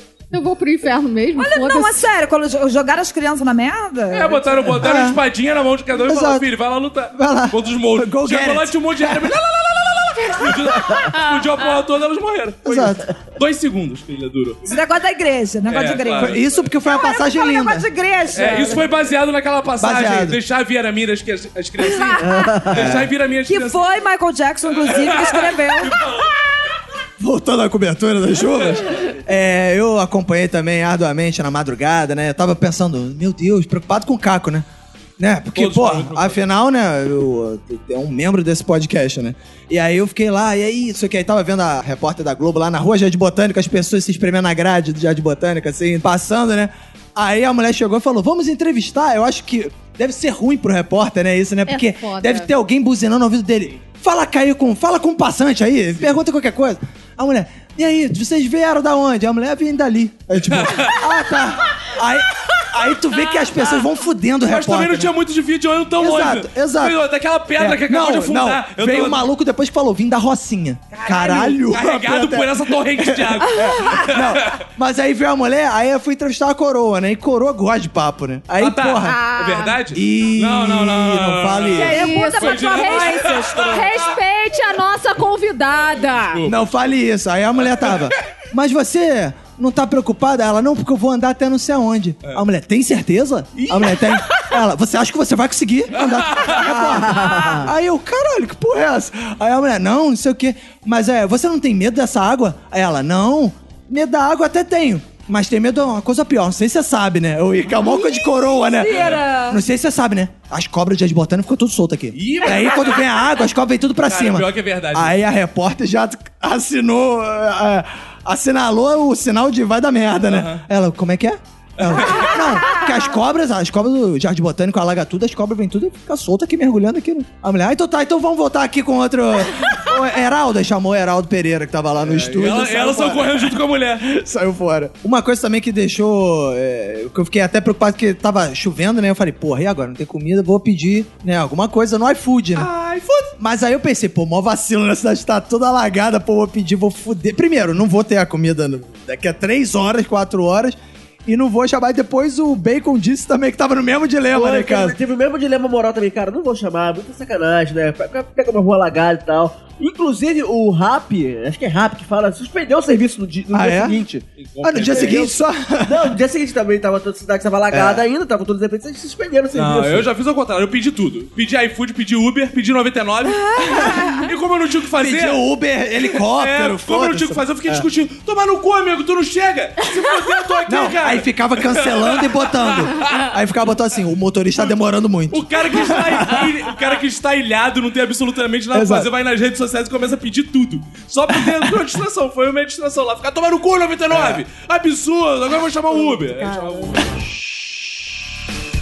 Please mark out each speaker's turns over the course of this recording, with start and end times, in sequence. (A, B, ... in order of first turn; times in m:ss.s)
0:00.3-0:02.1 A
0:01.4-0:04.7 B
0:04.1-0:14.6 C
0:04.8-0:05.2 D
0:06.0-0:06.4 D
0:07.1-0:09.4 D
0:12.6-0:13.0 D
0:14.7-0:18.8 B
0:15.7-0:16.7 C
0:16.1-0:17.9 D
0:18.3-0:23.9 C
0:19.8-0:20.4 D
0:22.2-0:23.0 E
0:22.7-0:23.1 D
0:23.5-0:26.0 B
0:24.8-0:26.4 C
0:27.2-0:34.6 D
0:28.6-0:29.0 C
0:35.2-1:05.1 D
0:35.5-0:36.4 C
0:51.7-0:52.5 A
1:00.3-1:01.0 C
1:04.5-1:09.2 C
1:06.0-1:07.0 D
1:07.6-1:19.2 D
1:10.9-1:14.6 C
1:18.6-1:24.1 C
1:19.0-1:19.8 A
1:19.9-1:22.0 D
1:21.7-1:26.4 A
1:21.9-1:23.9 B
1:26.2-1:26.6 C
1:26.4-2:22.7 D
1:33.6-1:34.5 C
1:35.9-1:37.0 C
1:36.6-1:37.7 E
1:47.9-1:49.6 B
1:48.9-1:49.2 C
1:52.1-1:53.1 C
1:54.0-1:55.2 C
2:00.2-2:00.6 C
2:01.8-2:02.4 C
2:12.0-2:14.1 C
2:22.6-2:23.3 C
2:23.4-2:35.0 D
2:34.3-2:44.2 E
2:43.5-2:46.1 D
2:44.4-2:45.3 C
2:44.8-2:45.3 E
2:45.8-2:50.1 E
2:47.7-2:48.0 D
2:49.5-2:55.4 C
2:53.4-2:54.3 B
2:55.0-2:57.8 D
2:56.0-3:03.3 C
3:00.7-3:06.5 D
3:05.3-3:17.1 C
3:08.7-3:09.1 D
3:14.1-3:14.4 D